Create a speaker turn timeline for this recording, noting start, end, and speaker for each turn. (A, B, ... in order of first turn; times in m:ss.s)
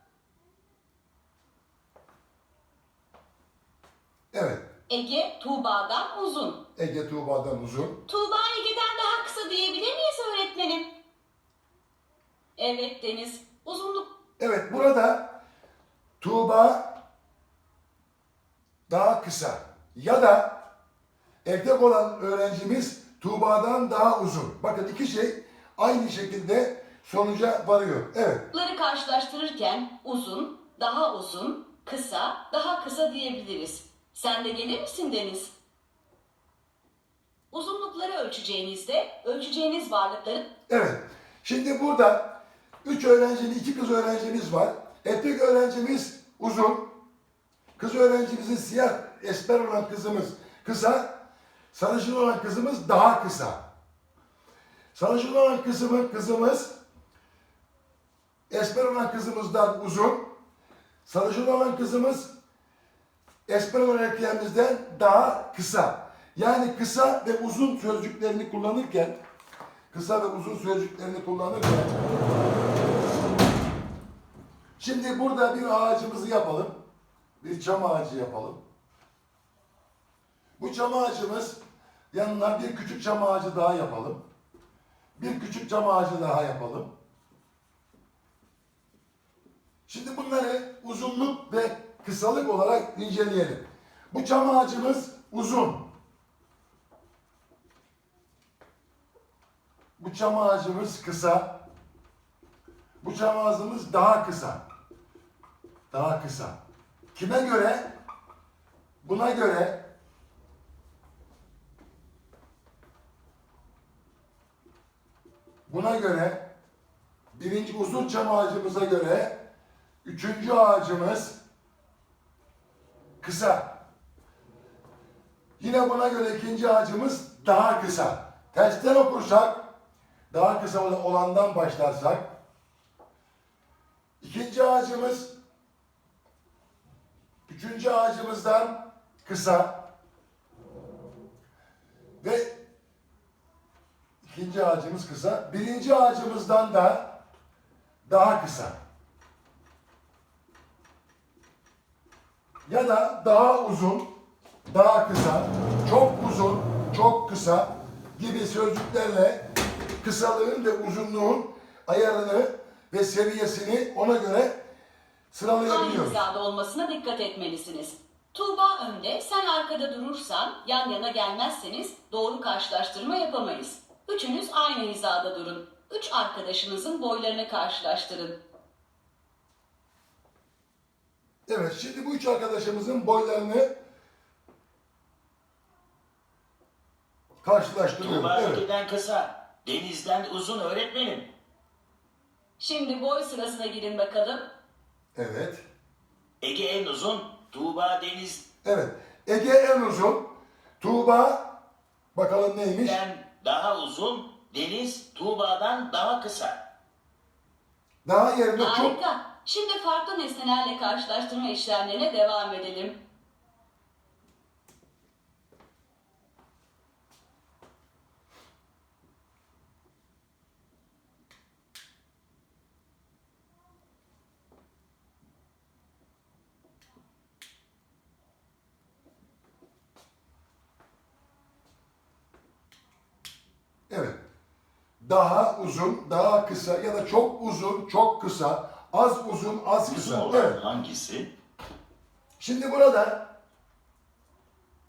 0:04.3-0:04.6 A
0:04.9-0:06.6 B
0:06.8-0:08.0 A
0:08.1-0:10.9 B
0:12.6-0:14.1 B
0:14.4-0:15.4 A
0:16.2-0:17.0 A
0:18.9-0:20.6 A
0:21.4-0:28.5 A
0:28.5-0:35.5 B
0:37.5-0:40.4 B
0:40.7-0:47.0 A
0:47.8-0:51.1 A
0:51.7-0:53.6 A
0:54.9-0:56.8 A
0:58.5-1:00.3 A
1:01.0-1:02.3 A
1:03.5-1:09.2 A
1:09.9-1:12.0 A
1:14.8-1:16.8 A
1:17.4-1:18.6 A
1:20.6-1:21.6 A
1:22.1-1:24.2 A
1:25.2-1:26.9 A
1:29.9-1:35.9 A
1:40.0-1:41.6 A
1:43.0-1:44.6 A
1:45.9-1:46.6 A
1:47.1-1:47.9 A
1:49.0-1:49.8 A
1:55.7-1:56.4 A
1:57.3-1:59.4 A
2:00.0-2:01.4 A
2:03.2-2:03.8 A
2:05.6-2:09.6 A
2:10.3-2:12.3 A
2:14.2-2:15.3 A
2:17.5-2:19.9 A
2:22.2-2:22.6 A
2:24.2-2:27.2 A
2:28.0-2:28.8 A
2:32.7-2:34.1 A
2:34.7-2:39.4 A
2:40.0-2:44.6 A
2:45.3-2:46.2 A
2:45.6-2:58.4 B
3:01.5-3:03.7 A
3:07.4-3:08.6 A
3:08.0-3:11.3 C
3:12.6-3:14.4 B
3:15.1-3:15.6 A
3:16.4-3:18.4 C
3:18.6-3:21.6 A
3:22.1-3:23.0 A
3:22.8-3:26.6 C
3:28.0-3:29.0 A
3:28.6-3:32.9 B
3:53.9-3:54.2 A
3:55.0-4:00.6 A
3:59.9-4:01.3 C
4:02.4-4:03.3 A